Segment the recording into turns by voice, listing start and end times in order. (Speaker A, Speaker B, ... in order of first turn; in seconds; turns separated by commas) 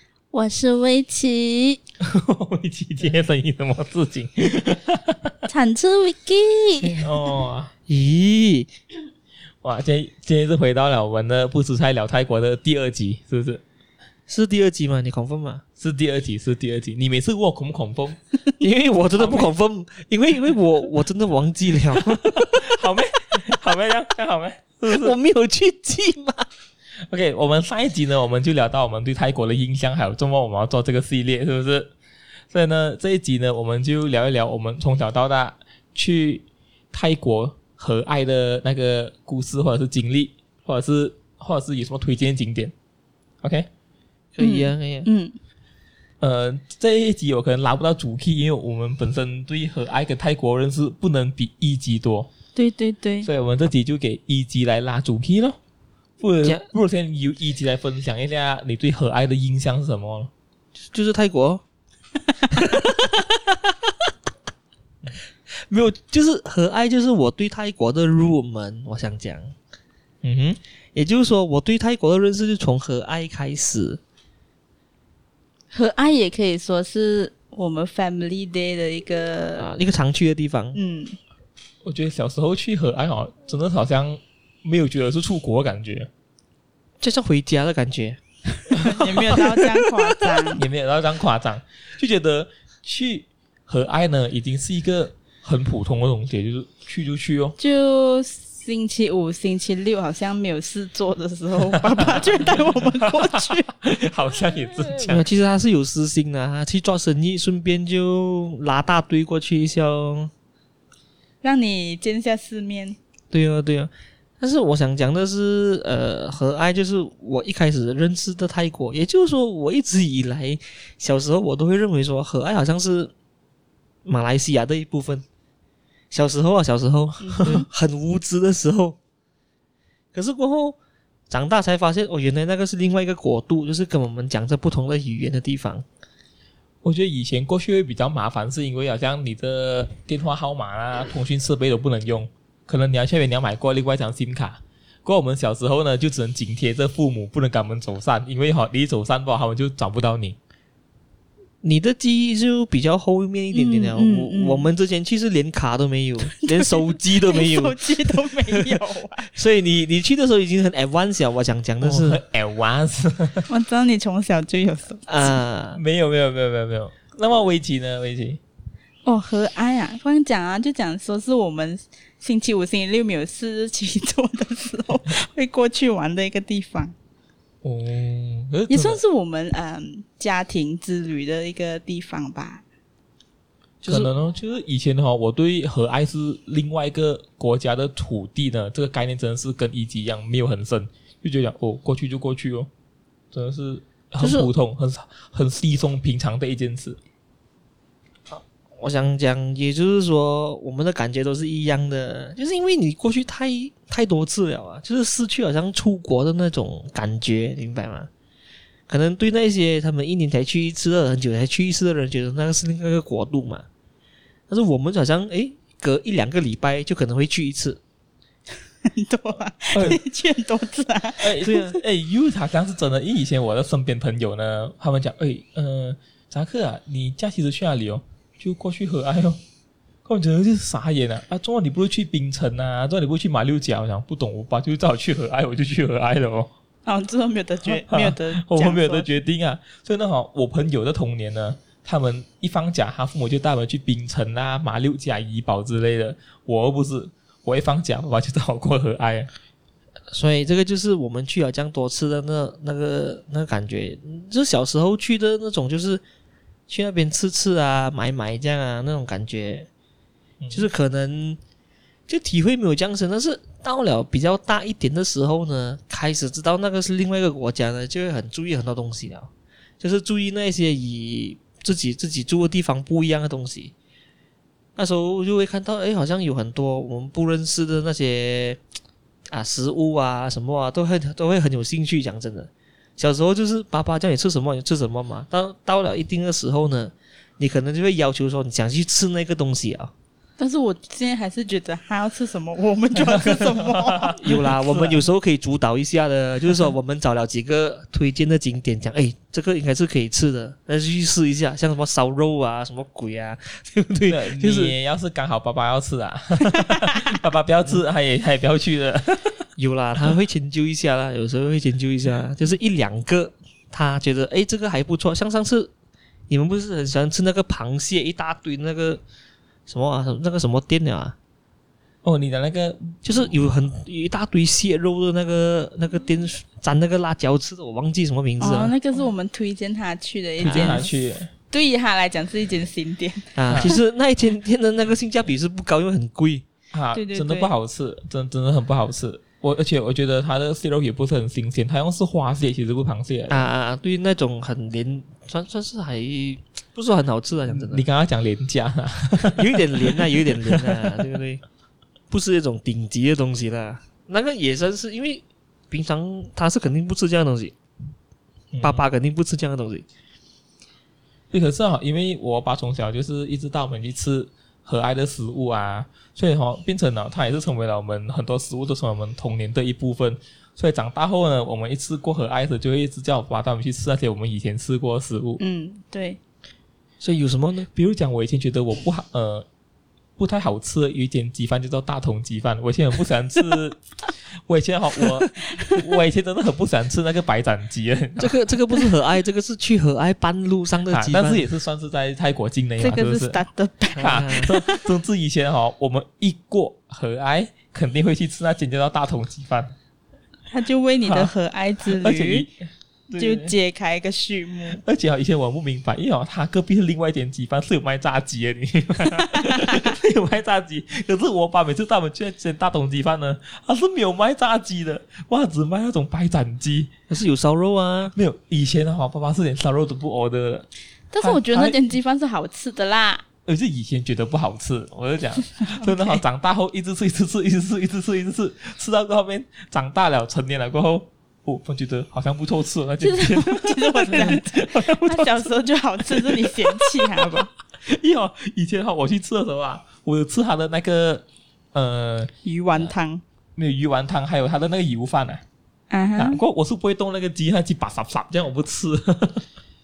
Speaker A: 0.3-1.8, Speaker B: 2.0-5.3, Speaker A: 5.5-7.1, Speaker B: 7.0-7.7, Speaker C: 7.9-8.7, Speaker B: 9.6-13.6, Speaker C: 14.3-15.6, Speaker B: 15.8-18.2, Speaker C: 18.6-22.8, Speaker B: 19.2-19.5, Speaker B: 22.0-25.1, Speaker C: 24.9-26.5, Speaker B: 27.1-31.9, Speaker B: 32.5-42.7, Speaker B: 43.4-43.7, Speaker C: 44.4-45.1, Speaker A: 44.4-45.4, Speaker B: 46.2-52.3, Speaker A: 52.5-53.3, Speaker B: 53.2-55.6, Speaker B: 56.2-60.3, Speaker C: 60.9-61.6, Speaker C: 62.5-63.9, Speaker C: 65.5-69.5, Speaker B: 70.2-70.6, Speaker C: 71.0-74.0, Speaker A: 75.7-79.7, Speaker C: 79.6-80.8, Speaker A: 80.8-81.2, Speaker B: 81.8-86.1, Speaker C: 87.0-88.2, Speaker A: 88.7-90.7, Speaker B: 88.7-89.5, Speaker C: 89.0-89.6, Speaker B: 90.5-97.6, Speaker A: 97.6-103.7, Speaker B: 101.7-105.3, Speaker C: 105.0-110.3, Speaker A: 111.4-113.0, Speaker C: 113.3-123.1, Speaker C: 124.0-125.2, Speaker C: 126.1-129.0, Speaker A: 127.2-127.7, Speaker C: 130.1-130.8, Speaker C: 131.3-135.8, Speaker B: 136.8-150.4, Speaker C: 151.6-162.2, Speaker A: 153.5-154.7, Speaker A: 156.3-159.3, Speaker B: 161.8-163.5, Speaker A: 163.5-165.1, Speaker C: 165.1-165.8, Speaker B: 165.8-168.4, Speaker A: 169.1-176.9, Speaker B: 177.6-179.0, Speaker A: 178.7-182.6, Speaker B: 183.8-192.7, Speaker B: 193.3-197.0, Speaker C: 194.2-194.5, Speaker C: 198.3-208.1, Speaker C: 208.9-213.7, Speaker C: 214.5-217.8, Speaker A: 218.8-221.8, Speaker B: 219.7-220.0, Speaker B: 221.2-229.4, Speaker B: 230.1-236.5, Speaker A: 236.9-239.2, Speaker B: 237.6-249.3, Speaker C: 250.1-256.0, Speaker C: 256.7-259.7, Speaker B: 260.4-260.7, Speaker C: 260.5-261.4, Speaker C: 262.1-273.7, Speaker C: 274.8-278.6, Speaker C: 279.3-289.9, Speaker A: 290.4-294.2, Speaker B: 292.9-295.1, Speaker C: 294.1-304.8, Speaker B: 304.1-309.4, Speaker C: 309.6-315.7, Speaker C: 316.3-319.0, Speaker C: 319.7-321.2, Speaker B: 322.0-323.3, Speaker C: 323.0-328.8, Speaker A: 328.4-330.9, Speaker B: 330.4-331.3, Speaker C: 330.4-330.9, Speaker A: 331.5-333.7, Speaker C: 333.4-336.5, Speaker B: 336.7-343.5, Speaker A: 336.9-337.5, Speaker C: 343.3-347.8, Speaker B: 347.5-351.0, Speaker C: 349.2-351.4, Speaker C: 352.1-357.6, Speaker B: 358.5-358.8, Speaker C: 358.6-359.9, Speaker B: 361.3-375.4, Speaker A: 375.4-376.2, Speaker C: 377.0-377.7, Speaker B: 377.7-379.5, Speaker B: 380.2-383.8, Speaker B: 384.3-388.4, Speaker A: 385.4-385.8, Speaker C: 388.2-391.4, Speaker B: 390.9-393.4, Speaker A: 392.8-394.9, Speaker C: 393.9-394.5, Speaker B: 394.0-399.7, Speaker A: 400.5-402.4, Speaker B: 401.0-401.3, Speaker B: 401.9-402.5, Speaker B: 403.1-403.5, Speaker A: 403.2-404.8, Speaker B: 404.7-416.9, Speaker A: 409.2-409.9, Speaker C: 417.1-418.1, Speaker B: 418.1-420.7, Speaker A: 421.1-423.2, Speaker B: 421.2-421.8, Speaker B: 423.5-435.5, Speaker A: 425.6-426.2, Speaker A: 433.0-437.5, Speaker B: 436.1-442.3, Speaker A: 442.4-443.2, Speaker B: 443.6-445.4, Speaker A: 445.9-446.4, Speaker B: 446.2-449.4